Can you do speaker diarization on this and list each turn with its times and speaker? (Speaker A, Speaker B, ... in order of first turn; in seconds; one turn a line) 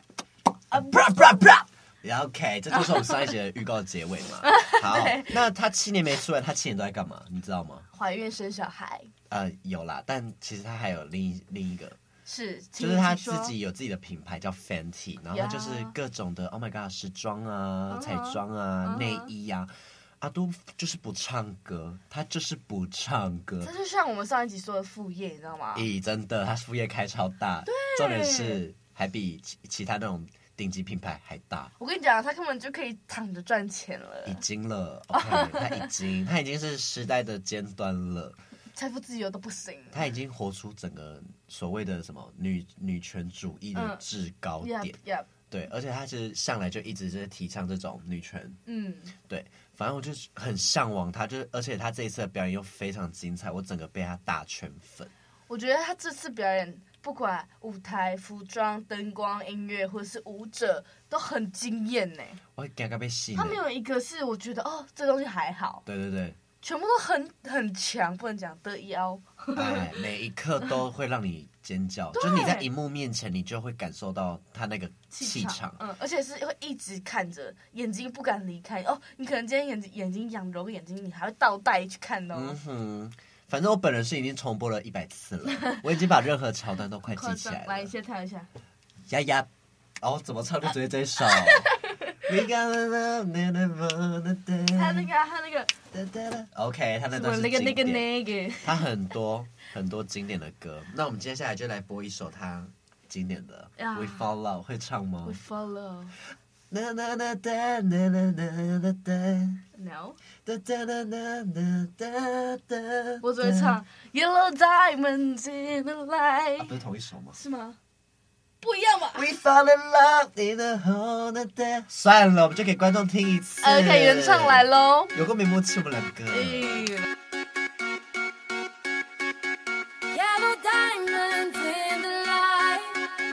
Speaker A: 0.7-7.8
Speaker B: 0.7-1.1
Speaker B: 4.4-5.4
Speaker B: 7.9-9.1
Speaker A: 9.3-12.0
Speaker B: 12.2-13.5
Speaker A: 12.8-23.7
Speaker B: 15.3-15.9
Speaker B: 17.9-19.3
Speaker B: 23.6-25.9
Speaker A: 25.7-31.7
Speaker B: 27.6-28.6
Speaker B: 31.8-34.4
Speaker A: 34.2-38.4
Speaker B: 35.1-35.9
Speaker B: 38.7-40.1
Speaker A: 39.9-45.0
Speaker B: 43.7-44.0
Speaker B: 44.6-45.3
Speaker A: 45.5-48.6
Speaker B: 48.6-49.1
Speaker A: 49.3-55.1
Speaker B: 55.5-62.4
Speaker A: 62.5-63.6
Speaker B: 63.3-65.8
Speaker A: 65.8-66.4
Speaker B: 66.6-69.8
Speaker A: 69.5-75.8
Speaker B: 72.1-72.7
Speaker B: 75.1-82.5
Speaker A: 82.3-87.9
Speaker B: 87.0-88.5
Speaker A: 89.1-89.5
Speaker A: 90.0-95.1
Speaker B: 91.2-92.2
Speaker B: 94.7-95.7
Speaker A: 95.9-98.1
Speaker B: 97.1-98.8
Speaker A: 98.6-105.4
Speaker B: 103.8-104.3
Speaker B: 105.2-106.1
Speaker A: 106.7-109.6
Speaker B: 109.7-110.2
Speaker A: 110.4-113.8
Speaker B: 113.2-116.7
Speaker A: 116.6-117.4
Speaker B: 117.3-117.8
Speaker B: 118.6-119.2
Speaker A: 119.1-126.9
Speaker B: 123.6-125.1
Speaker B: 126.3-127.0
Speaker C: 130.1-133.0